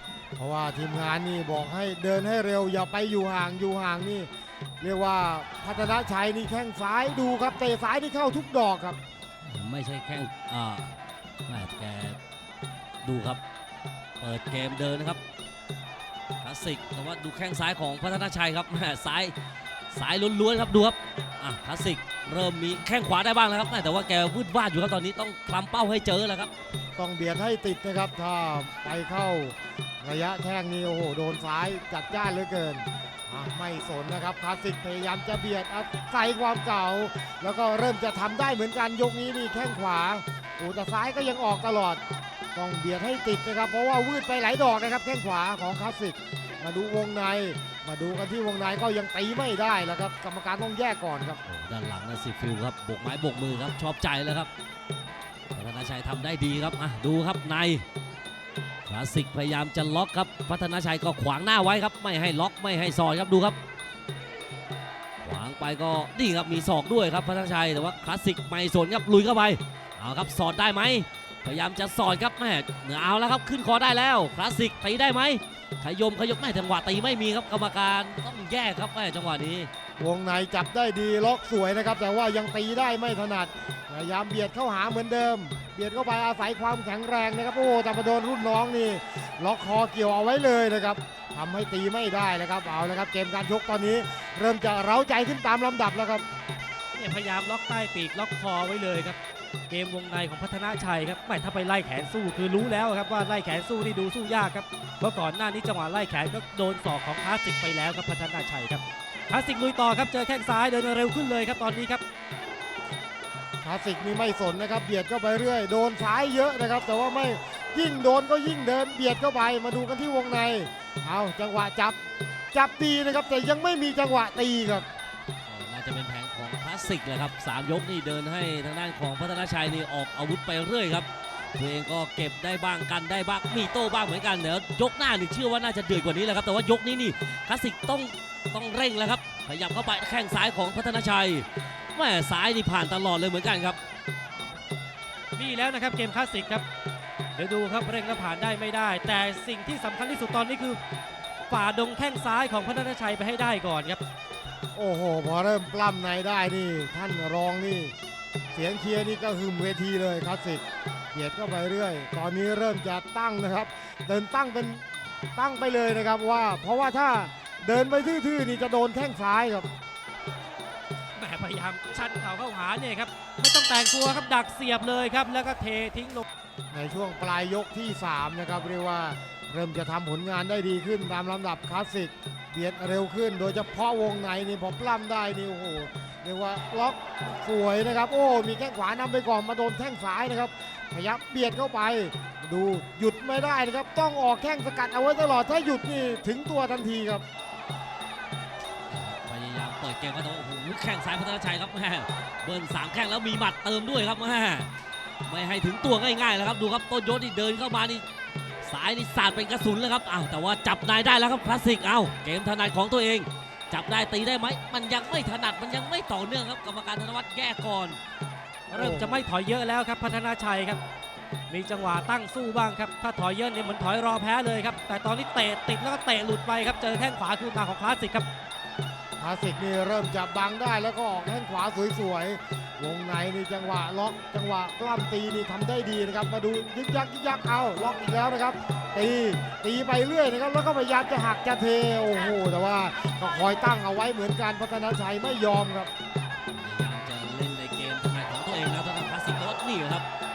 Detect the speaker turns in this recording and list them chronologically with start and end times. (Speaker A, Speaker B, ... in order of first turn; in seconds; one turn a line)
Speaker A: 0.4-4.3
Speaker A: 4.8-9.0
Speaker B: 9.5-10.9
Speaker B: 11.5-12.2
Speaker B: 13.0-13.4
Speaker B: 14.2-15.2
Speaker B: 16.4-19.3
Speaker B: 19.9-26.5
Speaker A: 27.0-42.0
Speaker A: 42.5-51.4
Speaker B: 51.5-54.5
Speaker B: 55.5-57.8
Speaker B: 58.9-63.6
Speaker B: 65.2-79.7
Speaker A: 80.0-96.2
Speaker C: 96.9-99.2
Speaker C: 99.7-112.0
Speaker A: 113.6-122.0
Speaker A: 122.5-124.9
Speaker B: 125.5-143.8
Speaker C: 145.3-146.6
Speaker C: 147.3-150.8
Speaker C: 151.5-154.0
Speaker A: 154.7-157.9
Speaker A: 158.5-169.7
Speaker C: 171.2-176.2
Speaker A: 176.7-197.2
Speaker B: 198.9-204.7
Speaker B: 205.2-208.0
Speaker B: 208.6-218.0
Speaker A: 218.7-219.2
Speaker C: 218.7-220.8
Speaker C: 221.5-228.2
Speaker A: 229.2-245.9
Speaker B: 246.5-250.1